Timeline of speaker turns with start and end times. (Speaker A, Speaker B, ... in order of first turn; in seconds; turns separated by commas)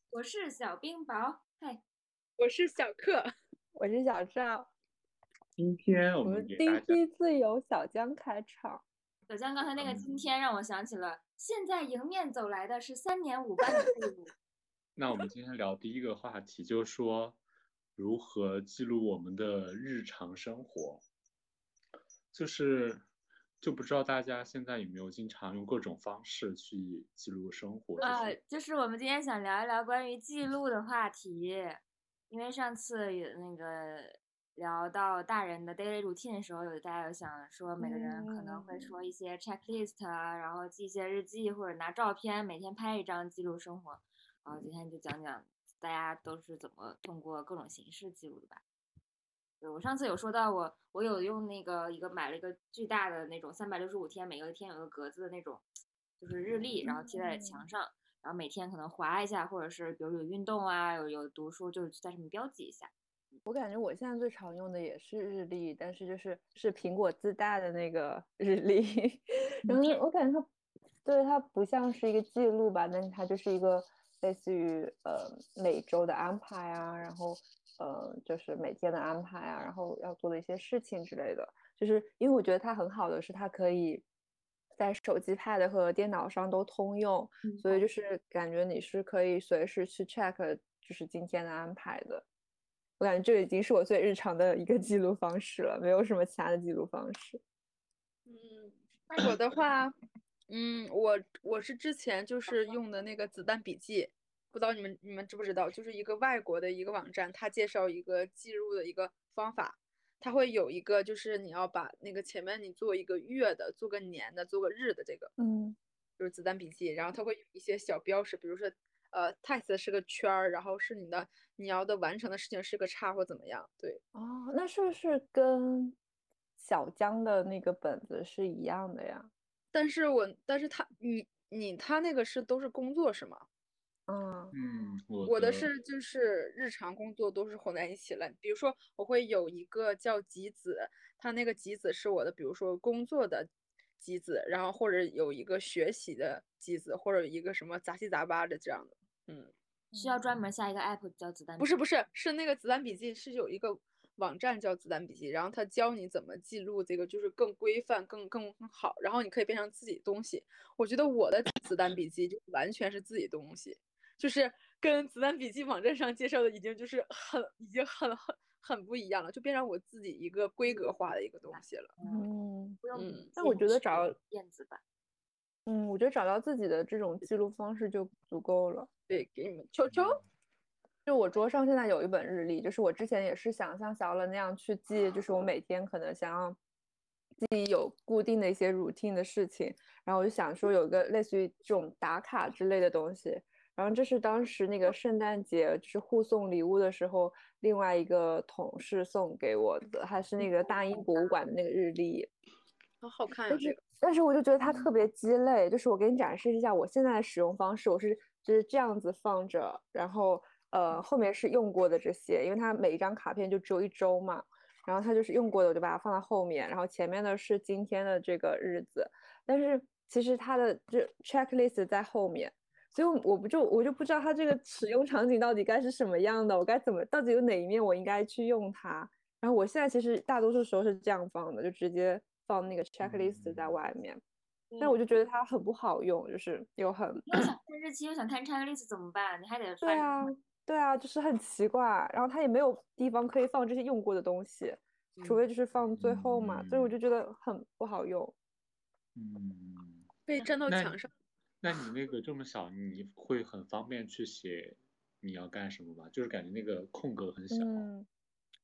Speaker A: 0.1-1.8, Speaker B: 2.4-3.3, Speaker C: 3.8-4.7, Speaker D: 5.6-7.0, Speaker C: 6.2-8.8, Speaker A: 9.3-14.3, Speaker D: 9.8-10.2, Speaker D: 15.0-17.4, Speaker D: 18.0-21.0, Speaker D: 22.3-23.0, Speaker D: 23.6-28.3, Speaker A: 28.0-48.6, Speaker C: 37.8-38.9, Speaker A: 49.6-55.6, Speaker A: 56.2-63.4, Speaker C: 56.8-57.7, Speaker C: 63.5-70.5, Speaker A: 69.7-70.0, Speaker C: 71.0-84.0, Speaker C: 84.8-92.2, Speaker A: 87.5-87.8, Speaker C: 93.0-97.4, Speaker B: 98.3-99.9, Speaker B: 100.5-115.3, Speaker C: 115.4-115.8, Speaker B: 116.2-124.0, Speaker C: 124.1-126.0, Speaker C: 126.6-129.3, Speaker B: 129.7-133.4, Speaker C: 134.1-134.5, Speaker D: 134.5-135.7, Speaker B: 135.2-149.5, Speaker C: 149.9-150.2, Speaker A: 150.0-151.8, Speaker B: 151.6-171.9, Speaker A: 170.7-170.9, Speaker A: 171.5-172.3, Speaker C: 172.1-172.8, Speaker A: 172.8-174.8, Speaker B: 172.9-173.3, Speaker C: 173.4-174.2, Speaker C: 175.7-178.9, Speaker B: 179.1-180.2, Speaker D: 179.9-180.2, Speaker C: 181.1-186.6, Speaker C: 187.4-202.3, Speaker A: 200.9-201.3, Speaker B: 203.0-203.8, Speaker C: 203.5-234.2, Speaker D: 204.6-204.9, Speaker D: 233.0-233.8, Speaker A: 234.7-235.0, Speaker C: 234.8-237.2, Speaker A: 237.2-240.3, Speaker C: 239.8-248.3, Speaker B: 245.2-245.4, Speaker D: 245.8-246.9, Speaker D: 249.2-250.1, Speaker B: 250.3-251.1, Speaker D: 250.7-251.0, Speaker D: 251.6-257.9, Speaker C: 257.5-258.1